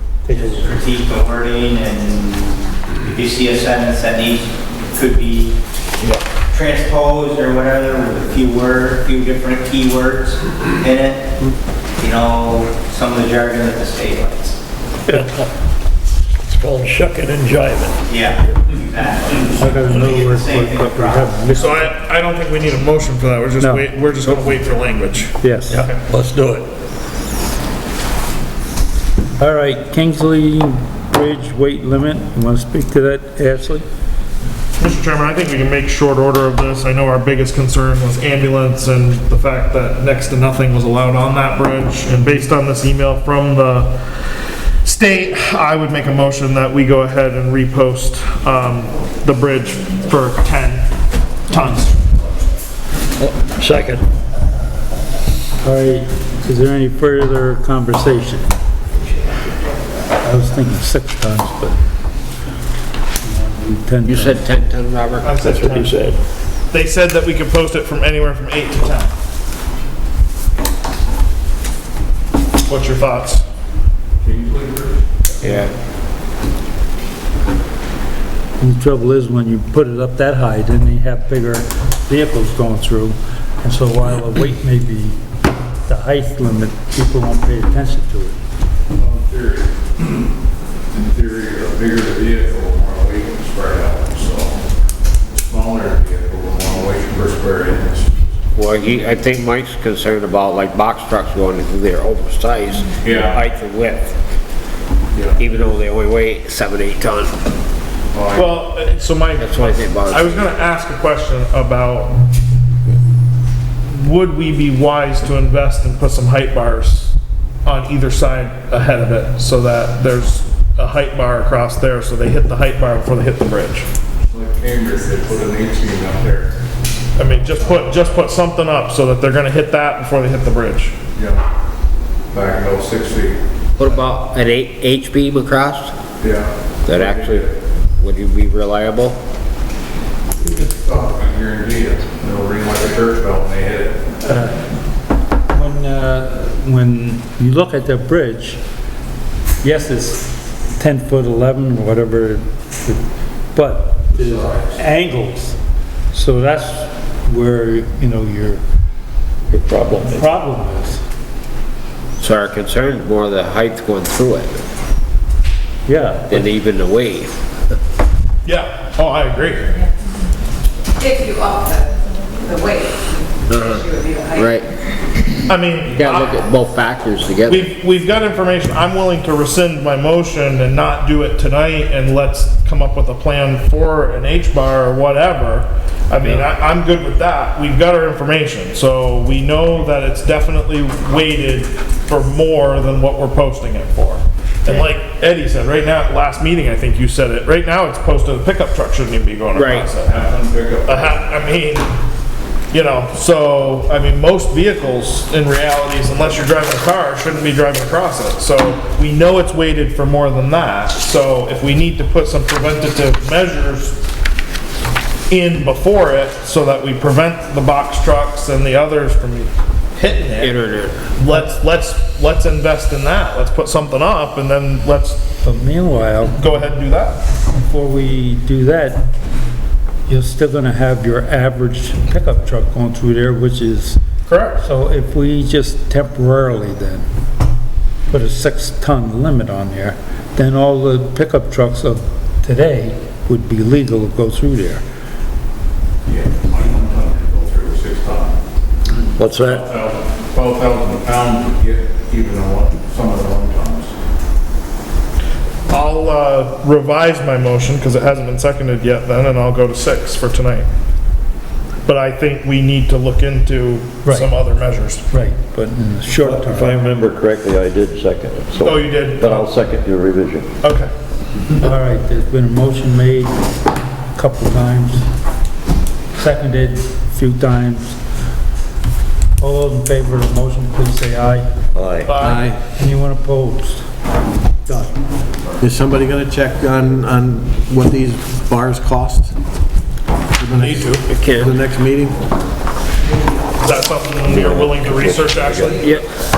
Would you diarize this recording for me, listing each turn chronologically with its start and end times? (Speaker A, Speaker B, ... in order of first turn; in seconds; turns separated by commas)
Speaker A: 0.2-0.7, Speaker B: 0.3-5.5, Speaker B: 6.5-11.3, Speaker B: 12.0-14.6, Speaker C: 15.1-15.5, Speaker C: 16.4-18.0, Speaker B: 18.1-21.8, Speaker A: 19.5-21.9, Speaker D: 21.5-25.9, Speaker A: 23.6-23.9, Speaker A: 25.4-25.9, Speaker C: 25.7-26.7, Speaker A: 29.4-33.9, Speaker D: 34.8-44.1, Speaker D: 44.8-50.9, Speaker D: 51.5-52.0, Speaker C: 53.2-54.0, Speaker A: 55.6-58.5, Speaker A: 60.2-61.8, Speaker A: 63.2-64.4, Speaker E: 64.1-65.3, Speaker D: 65.2-66.0, Speaker C: 65.4-66.2, Speaker D: 66.7-69.1, Speaker D: 72.7-73.4, Speaker F: 74.2-75.0, Speaker E: 75.4-75.7, Speaker A: 78.6-85.2, Speaker A: 85.9-88.4, Speaker F: 89.0-90.2, Speaker F: 90.9-94.5, Speaker F: 95.3-98.3, Speaker E: 98.5-104.1, Speaker F: 103.0-103.4, Speaker F: 105.1-105.4, Speaker E: 105.3-107.3, Speaker F: 108.1-108.6, Speaker D: 108.3-112.2, Speaker E: 109.4-110.5, Speaker D: 113.9-123.9, Speaker F: 124.2-126.5, Speaker D: 127.2-130.9, Speaker F: 131.1-131.4, Speaker F: 132.3-133.4, Speaker E: 133.8-135.9, Speaker F: 136.2-137.5, Speaker E: 136.8-137.4, Speaker E: 138.0-139.2, Speaker F: 140.4-144.0, Speaker A: 144.2-144.6, Speaker A: 145.5-148.6, Speaker A: 149.6-153.0, Speaker A: 153.5-155.6, Speaker F: 154.1-154.8, Speaker A: 156.1-158.6, Speaker C: 159.5-160.3, Speaker A: 160.0-161.0, Speaker E: 162.2-164.5, Speaker A: 165.9-166.4, Speaker E: 166.3-167.4, Speaker D: 168.4-169.7, Speaker G: 171.0-174.6, Speaker E: 173.5-173.8, Speaker E: 174.3-174.7, Speaker D: 175.5-176.3, Speaker E: 175.9-177.6, Speaker D: 177.5-200.2, Speaker E: 199.6-199.9, Speaker F: 200.0-201.2, Speaker D: 200.8-201.9, Speaker D: 202.7-214.0, Speaker D: 215.3-220.6, Speaker E: 220.4-220.9, Speaker D: 221.2-225.2, Speaker A: 225.4-226.4, Speaker D: 226.4-227.2, Speaker A: 227.6-229.0, Speaker A: 230.1-234.0, Speaker D: 234.3-234.6, Speaker A: 234.6-237.1, Speaker A: 238.1-244.8, Speaker F: 246.0-248.4, Speaker C: 249.2-249.7, Speaker F: 249.4-253.9, Speaker D: 255.7-260.7, Speaker D: 261.9-265.0, Speaker A: 264.0-264.3, Speaker A: 265.1-266.9, Speaker C: 266.2-270.5, Speaker D: 268.6-269.5, Speaker D: 270.6-270.9, Speaker A: 271.6-273.3, Speaker A: 274.1-275.1, Speaker A: 276.1-278.0, Speaker A: 279.4-281.5, Speaker C: 281.7-282.1, Speaker D: 282.1-282.5, Speaker H: 282.2-282.6, Speaker A: 282.8-283.9, Speaker A: 284.6-285.0, Speaker H: 285.6-289.3, Speaker H: 290.4-292.2, Speaker D: 290.6-291.0, Speaker E: 291.1-291.5, Speaker D: 293.6-295.9, Speaker E: 294.3-294.7, Speaker C: 295.4-295.7